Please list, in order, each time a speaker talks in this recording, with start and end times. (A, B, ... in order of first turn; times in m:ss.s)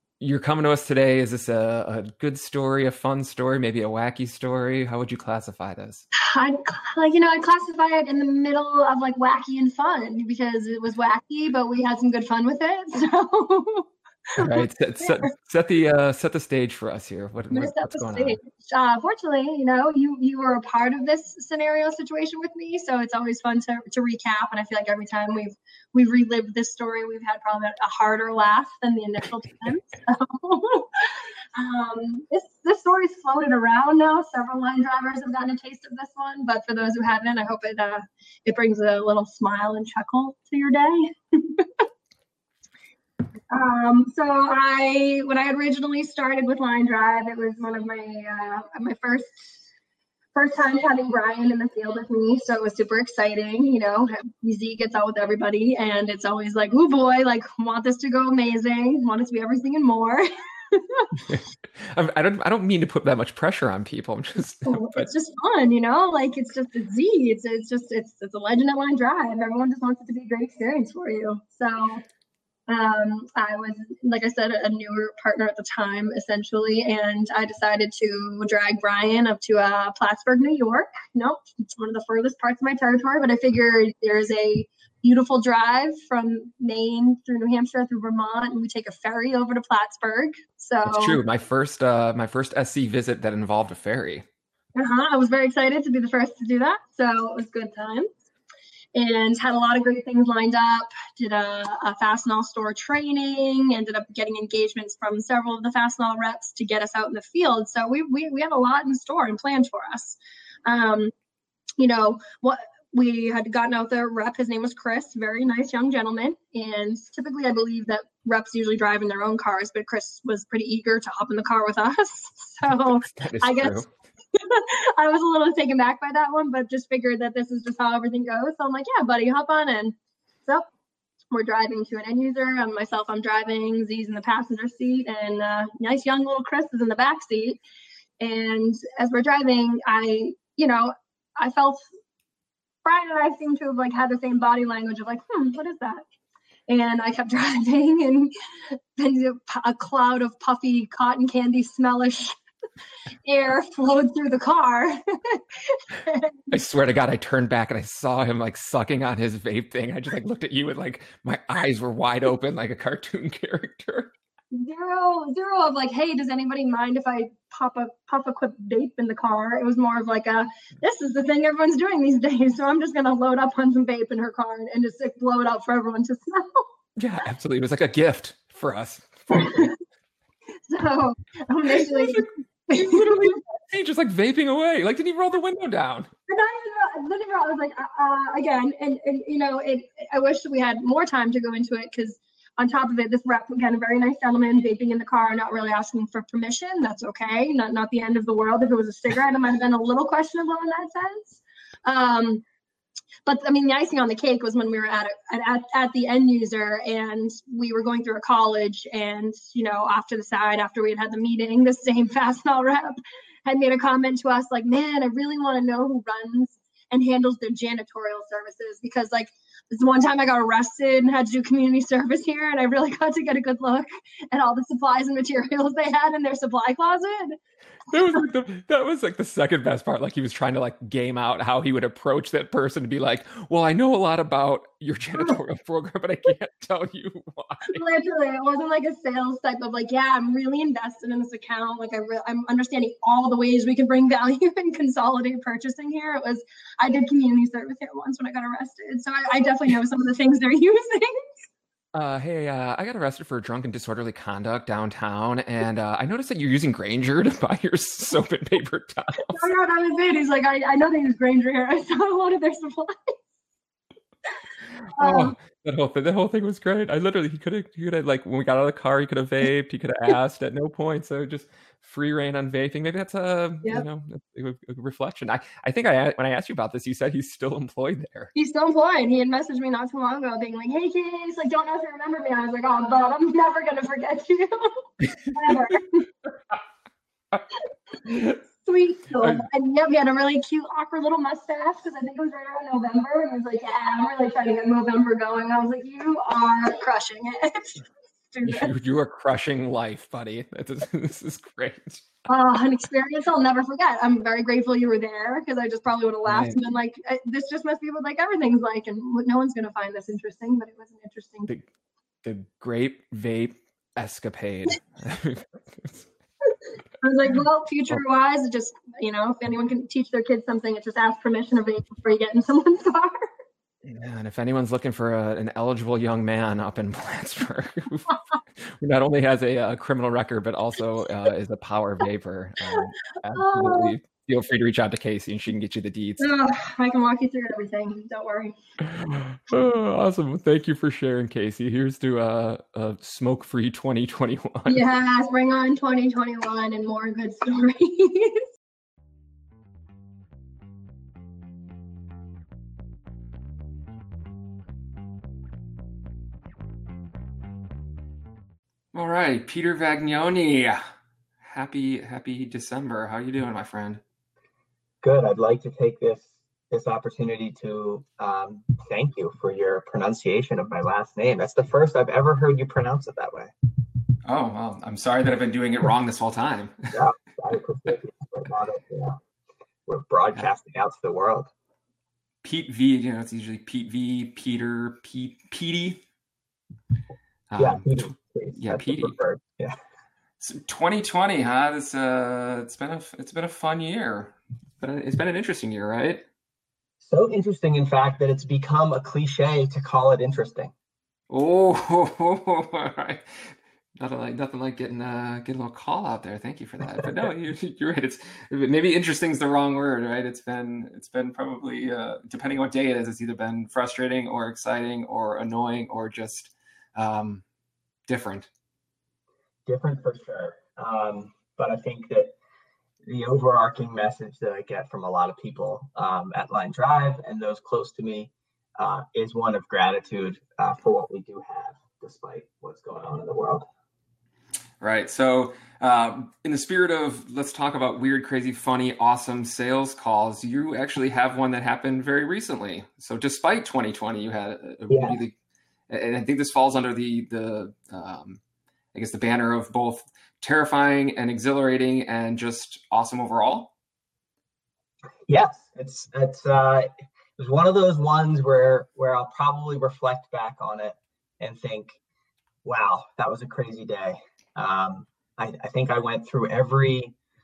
0:00.2-0:06.0 A
0:06.2-0:15.2 B
0:14.4-0:18.4 A
0:17.5-0:41.8 B
0:43.5-0:49.4 B
0:50.3-1:01.1 B
1:01.2-1:05.1 A
1:04.6-1:12.0 B
1:12.7-1:31.2 B
1:30.8-1:34.2 A
1:34.7-1:38.1 B
1:38.9-1:51.1 B
1:51.8-2:03.8 B
2:03.1-2:03.9 A
2:04.3-2:10.7 B
2:11.3-2:17.6 B
2:18.2-2:21.8 B
2:22.8-2:26.0 B
2:26.7-2:32.4 B
2:33.2-2:36.3 B
2:36.5-2:44.1 A
2:44.5-2:56.7 B
2:57.0-2:59.7 A
2:59.3-2:59.7 B
3:00.7-3:03.3 B
3:01.8-3:06.1 A
3:06.3-3:22.4 B
3:23.2-3:47.4 B
3:47.9-3:57.8 A
3:57.7-4:11.2 B
4:11.9-4:19.5 A
4:19.3-4:23.2 B
4:24.9-4:38.3 A
4:25.0-4:25.3 B
4:38.4-4:44.8 B
4:45.3-4:46.1 B
4:48.1-4:48.3 A
4:48.6-4:58.7 B
4:49.2-4:49.4 A
4:58.4-5:02.0 A
5:02.3-5:11.5 B
5:06.3-5:06.6 A
5:12.2-5:16.0 A
5:17.0-5:23.3 B
5:23.8-5:36.3 A
5:33.3-5:33.9 B
5:36.2-5:38.5 B
5:38.8-5:44.8 A
5:44.7-5:48.4 B
5:58.9-6:00.8 A
6:01.4-6:04.0 A
6:05.0-6:13.5 C
6:14.2-6:16.9 A
6:16.9-6:19.2 C
6:19.9-6:21.5 C
6:22.4-6:26.0 A
6:27.5-6:29.2 A
6:27.6-6:29.8 C
6:30.4-6:36.2 A
6:37.0-6:40.7 C
6:41.3-6:57.4 A
6:58.1-6:58.5 A
6:59.7-7:02.3 C
7:03.0-7:13.7 C
7:14.8-7:25.3 A
7:24.9-7:25.2 C
7:25.9-7:28.4 A
7:28.9-7:33.7 A
7:35.3-7:42.0 C
7:42.6-7:47.1 C